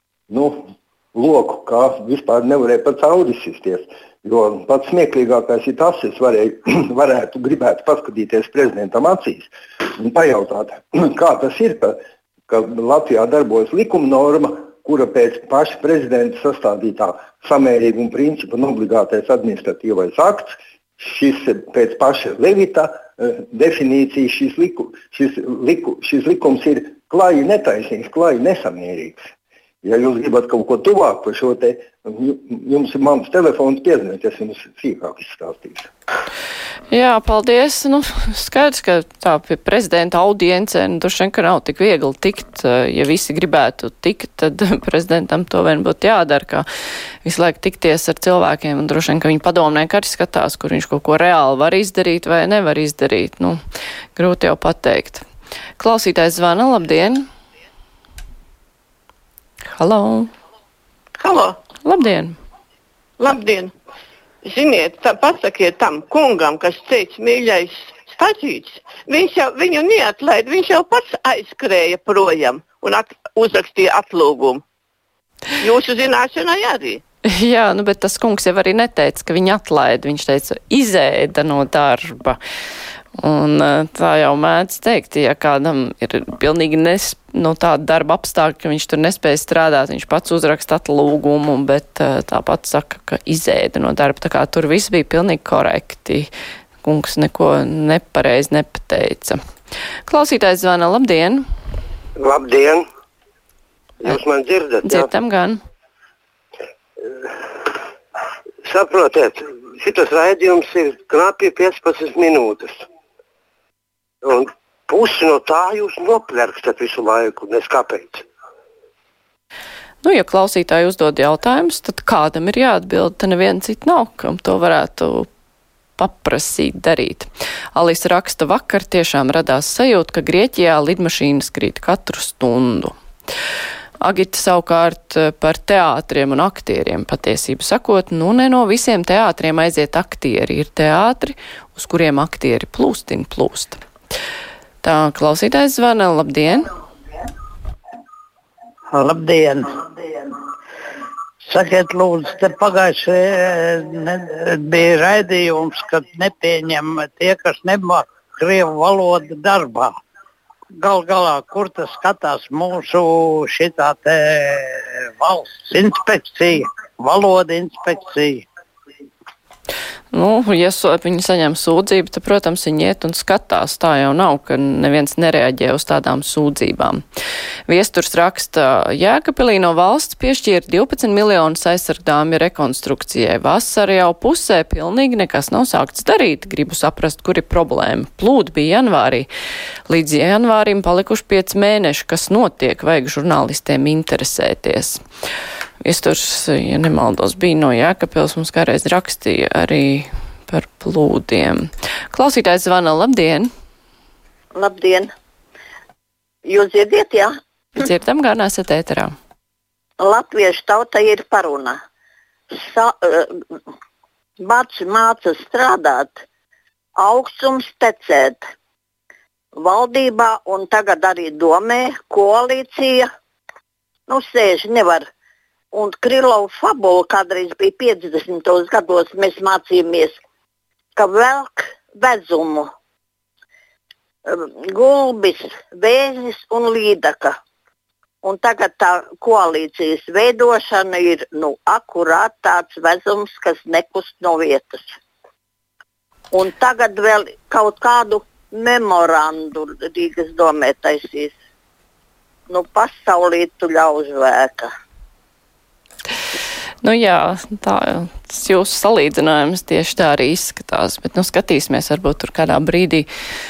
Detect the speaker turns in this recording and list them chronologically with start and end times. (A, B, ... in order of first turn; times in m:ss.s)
0:00.3-0:29.2 A
0:29.8-0:35.9 A
0:36.9-0:46.6 B
0:47.2-0:53.6 B
0:54.2-0:55.2 B
0:55.8-0:57.3 B
0:59.7-1:00.3 B
1:01.2-1:01.6 C
1:01.8-1:02.4 B
1:03.2-1:03.7 C
1:04.4-1:14.6 C
1:15.6-1:17.0 C
1:17.3-1:22.4 B
1:23.2-1:36.3 B
1:36.8-1:39.4 B
1:40.1-1:41.4 B
1:42.2-1:42.9 D
1:44.0-1:45.1 D
1:44.8-1:45.6 B
1:48.6-1:52.8 D
1:54.2-1:58.2 D
2:00.0-2:05.3 B
2:06.0-2:12.9 B
2:14.0-2:23.8 B
2:24.8-2:26.7 B
2:28.9-2:29.7 E
2:31.4-2:40.0 E
2:40.7-2:48.4 E
2:50.1-2:57.0 B
2:57.7-3:09.3 B
3:09.9-3:15.0 B
3:15.8-3:23.5 B
3:24.5-3:25.1 F
3:26.4-3:27.3 F
3:27.8-3:29.1 B
3:30.0-3:31.8 F
3:32.5-3:33.3 F
3:34.4-3:36.2 F
3:37.0-3:38.4 F
3:39.6-3:43.1 F
3:44.1-3:45.1 F
3:45.7-3:50.2 F
3:51.0-3:52.7 F
3:54.3-3:57.4 F
3:58.2-4:04.9 F
4:06.3-4:11.3 F
4:12.5-4:14.7 F
4:16.8-4:23.1 B